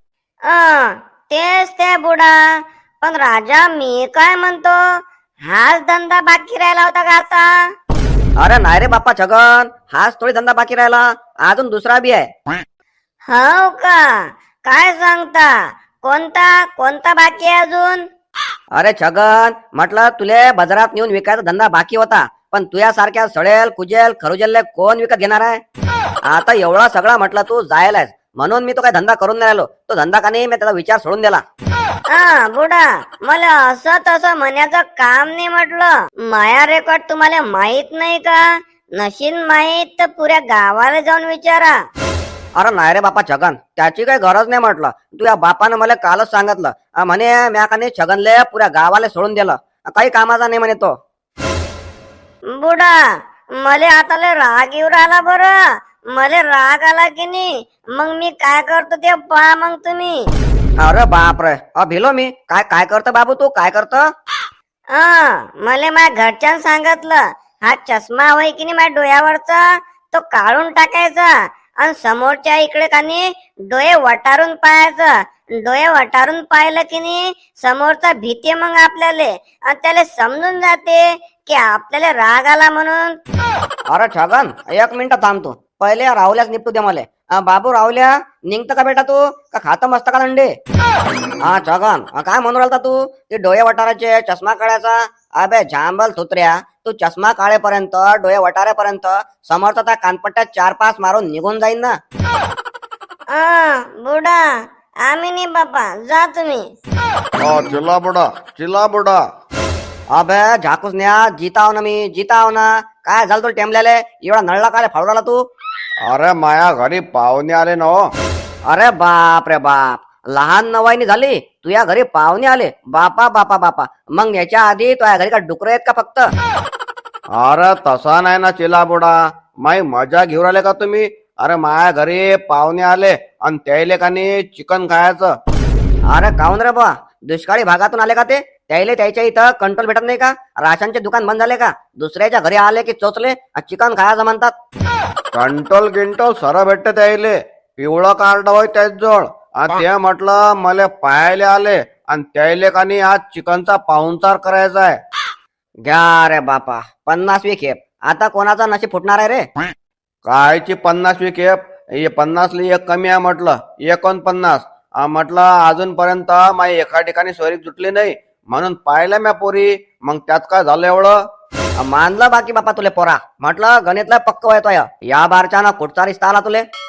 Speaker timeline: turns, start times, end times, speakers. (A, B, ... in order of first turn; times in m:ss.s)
0:00.5-0:04.8 A
0:05.4-0:07.7 A
0:08.4-0:12.3 B
0:13.3-0:18.0 A
0:18.7-0:25.6 B
0:26.3-0:31.4 B
0:32.1-0:38.4 A
0:39.0-0:41.8 A
0:42.6-0:51.0 B
0:52.5-0:53.0 A
0:53.6-0:55.6 A
0:56.1-1:00.3 A
1:00.8-1:04.1 B
1:04.9-1:23.2 A
1:23.9-1:30.5 B
1:31.4-1:42.0 B
1:43.3-1:46.7 A
1:47.4-1:49.2 C
1:50.1-1:55.4 B
1:56.0-1:58.1 C
1:58.7-2:06.3 B
2:07.4-2:15.4 C
2:16.1-2:24.5 B
2:25.3-2:35.0 C
2:35.8-2:39.5 B
2:40.2-2:51.2 C
2:51.8-2:56.6 B